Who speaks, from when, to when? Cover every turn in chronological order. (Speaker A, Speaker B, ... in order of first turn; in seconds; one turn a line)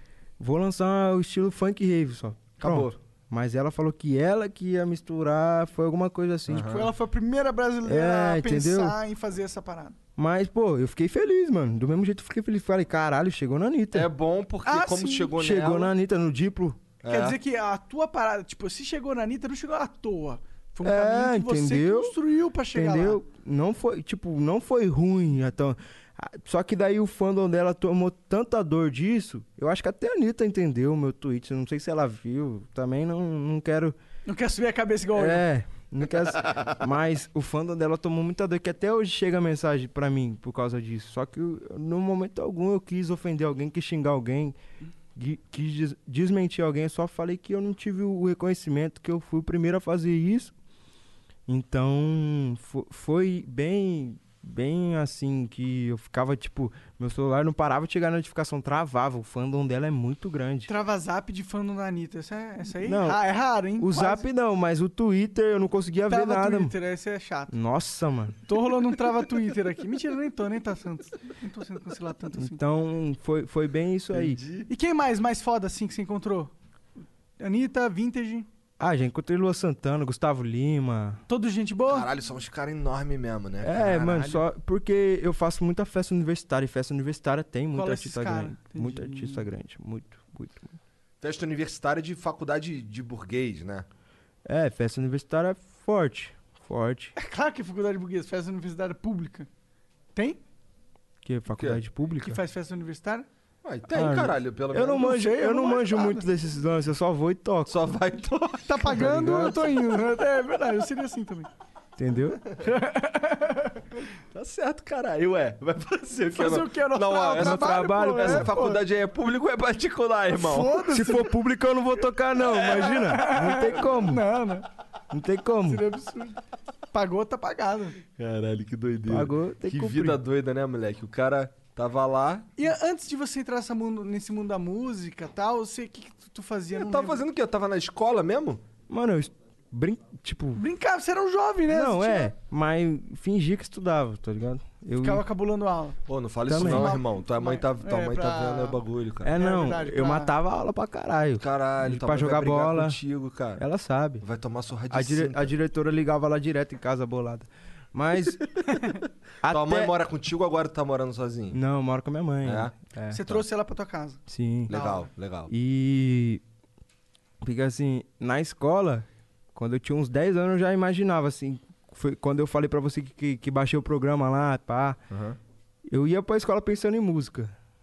Speaker A: 0.4-6.8
Speaker B: 2.6-2.9
Speaker B: 6.5-6.9
Speaker C: 6.7-9.9
Speaker A: 7.8-9.0
Speaker A: 10.2-14.1
Speaker B: 13.9-15.9
Speaker C: 14.7-15.3
Speaker A: 15.3-16.8
Speaker B: 17.0-17.4
Speaker C: 17.1-23.2
Speaker A: 20.8-22.1
Speaker A: 22.7-34.0
Speaker C: 34.2-35.5
Speaker A: 35.1-44.6
Speaker A: 45.1-50.5
Speaker A: 51.5-60.7
Speaker C: 60.7-64.3
Speaker A: 62.8-63.2
Speaker A: 63.8-66.7
Speaker C: 66.1-67.5
Speaker A: 67.5-68.4
Speaker C: 68.5-72.6
Speaker A: 72.4-74.4
Speaker B: 74.1-74.7
Speaker C: 74.7-76.5
Speaker C: 77.4-78.5
Speaker A: 78.8-81.2
Speaker C: 81.3-82.1
Speaker B: 81.9-84.4
Speaker A: 83.6-90.8
Speaker C: 87.7-89.5
Speaker B: 91.2-93.8
Speaker A: 94.4-97.1
Speaker C: 97.2-99.5
Speaker A: 101.2-102.4
Speaker C: 102.2-103.2
Speaker B: 103.6-105.1
Speaker A: 103.9-107.7
Speaker C: 104.9-106.2
Speaker B: 107.7-109.1
Speaker C: 108.7-111.5
Speaker A: 108.9-109.6
Speaker A: 112.0-112.4
Speaker C: 112.6-113.8
Speaker B: 114.3-121.0
Speaker C: 116.3-118.8
Speaker A: 117.3-118.5
Speaker C: 120.3-121.3
Speaker A: 120.9-124.2
Speaker C: 122.4-124.7
Speaker A: 125.1-125.8
Speaker C: 125.7-126.4
Speaker C: 126.9-128.0
Speaker B: 128.2-132.5
Speaker A: 129.1-130.2
Speaker C: 132.6-137.2
Speaker B: 136.7-138.6
Speaker A: 138.9-140.6
Speaker C: 140.6-142.3
Speaker A: 141.7-145.2
Speaker C: 145.0-146.0
Speaker B: 146.1-149.3
Speaker A: 146.4-146.9
Speaker C: 146.5-148.8
Speaker A: 149.2-153.0
Speaker C: 149.3-150.3
Speaker B: 151.4-153.6
Speaker A: 153.6-154.2
Speaker B: 154.2-155.5
Speaker A: 154.9-158.4
Speaker A: 159.4-159.9
Speaker B: 159.4-161.6
Speaker A: 161.5-163.2
Speaker B: 162.4-162.7
Speaker C: 163.1-165.1
Speaker A: 164.3-164.7
Speaker B: 164.7-165.5
Speaker A: 165.5-166.4
Speaker A: 167.4-175.0
Speaker B: 175.1-175.4
Speaker A: 175.9-177.5